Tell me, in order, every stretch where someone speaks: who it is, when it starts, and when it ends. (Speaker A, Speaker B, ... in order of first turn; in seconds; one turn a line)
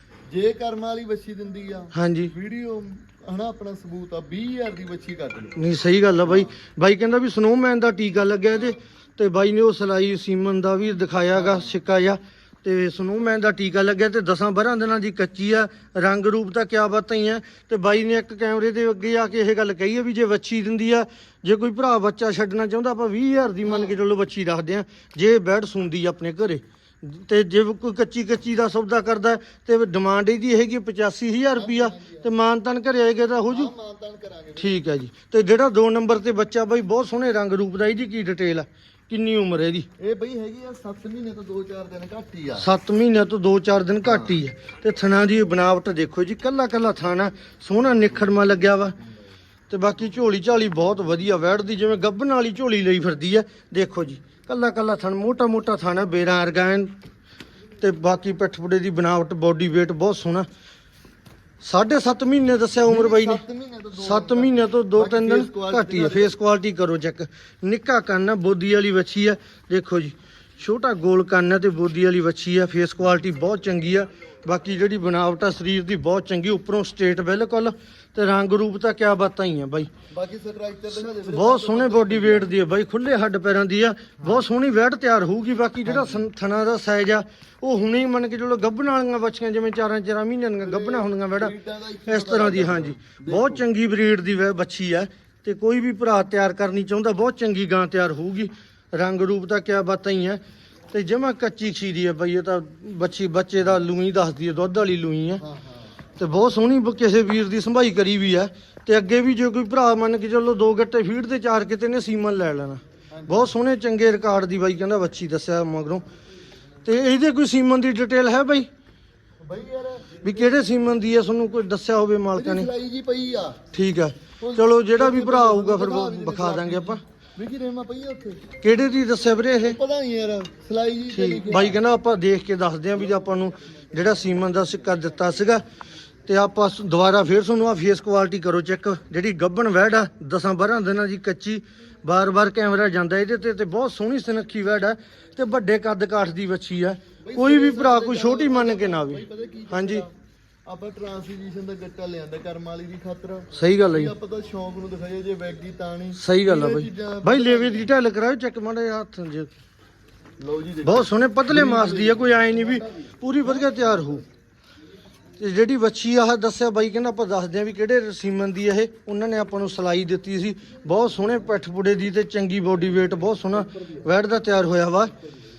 Speaker A: 0.3-5.5
Speaker B: 1.9-2.3
Speaker B: 5.5-33.7
Speaker A: 11.3-11.7
Speaker A: 23.6-23.9
Speaker A: 31.6-32.3
Speaker A: 33.5-34.8
Speaker B: 34.6-39.9
Speaker A: 40.0-42.7
Speaker B: 42.6-48.9
Speaker A: 44.0-44.3
Speaker B: 49.7-56.9
Speaker B: 57.8-60.5
Speaker B: 61.6-63.4
Speaker A: 62.9-66.3
Speaker B: 63.9-79.9
Speaker A: 80.1-82.5
Speaker B: 81.3-91.5
Speaker A: 85.8-86.3
Speaker A: 90.6-93.6
Speaker B: 92.1-105.4
Speaker A: 105.4-105.9
Speaker B: 106.2-116.0
Speaker A: 113.2-113.5
Speaker B: 116.8-118.7
Speaker A: 119.5-120.4
Speaker B: 120.2-122.7
Speaker A: 122.3-123.6
Speaker B: 123.7-127.0
Speaker A: 124.4-128.4
Speaker B: 128.6-129.8
Speaker A: 129.6-131.8
Speaker B: 131.1-135.6
Speaker B: 136.3-150.1
Speaker A: 147.3-150.1
Speaker A: 150.7-157.9
Speaker B: 153.5-154.1
Speaker B: 156.2-159.5
Speaker A: 160.4-162.8
Speaker B: 160.8-164.2
Speaker A: 163.4-164.1
Speaker B: 165.4-175.1